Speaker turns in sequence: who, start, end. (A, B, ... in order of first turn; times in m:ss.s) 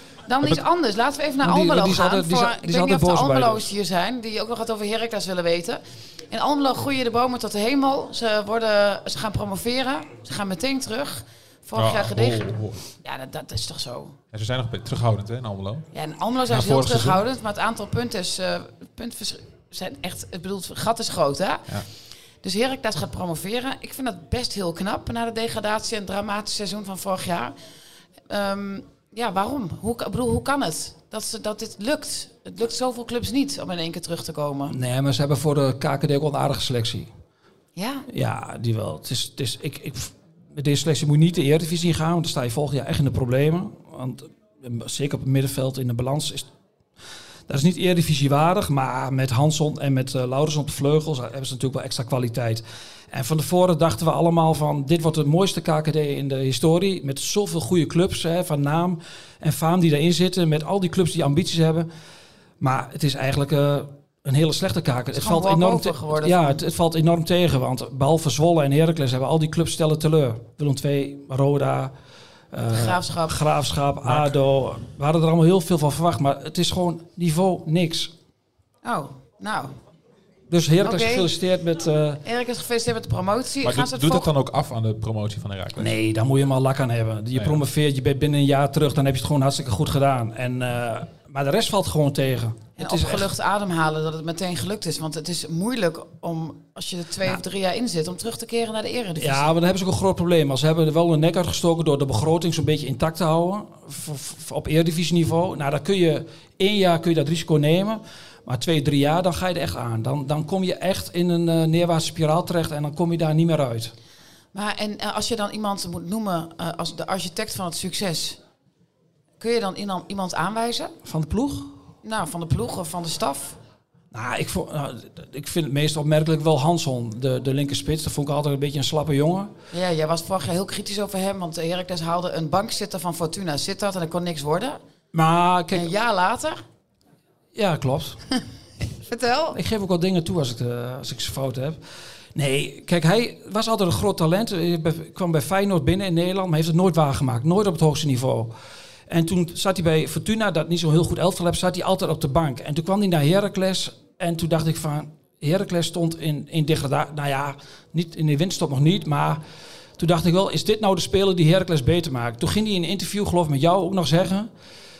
0:00.2-0:14.2 A
0:01.4-0:03.6 B
0:11.8-0:12.8 C
0:14.3-0:15.9 C
0:15.9-0:21.8 A
0:16.5-0:17.2 C
0:22.4-0:27.5 A
0:28.3-0:34.7 A
0:34.7-0:37.1 B
0:37.8-0:38.1 A
0:38.1-0:46.5 B
0:47.5-1:01.9 B
1:02.6-1:11.9 B
1:05.1-1:06.6 A
1:12.5-1:18.1 B
1:12.7-1:13.4 A
1:14.0-1:14.3 C
1:18.8-1:19.8 A
1:20.5-1:22.2 B
1:20.8-1:21.3 A
1:22.2-1:24.3 A
1:23.6-1:25.9 C
1:25.8-1:33.3 B
1:27.3-1:27.6 C
1:32.8-1:39.5 A
1:39.2-1:53.9 B
1:54.5-1:58.4 A
1:59.4-2:01.0 A
2:01.0-2:01.8 B
2:02.0-2:03.6 A
2:04.1-2:09.5 B
2:09.7-2:14.8 A
2:15.1-2:15.9 B
2:15.7-2:16.6 A
2:17.5-2:18.2 B
2:19.0-2:19.6 A
2:19.5-2:21.8 B
2:22.3-2:28.5 B
2:29.1-2:39.4 B
2:40.0-2:44.5 B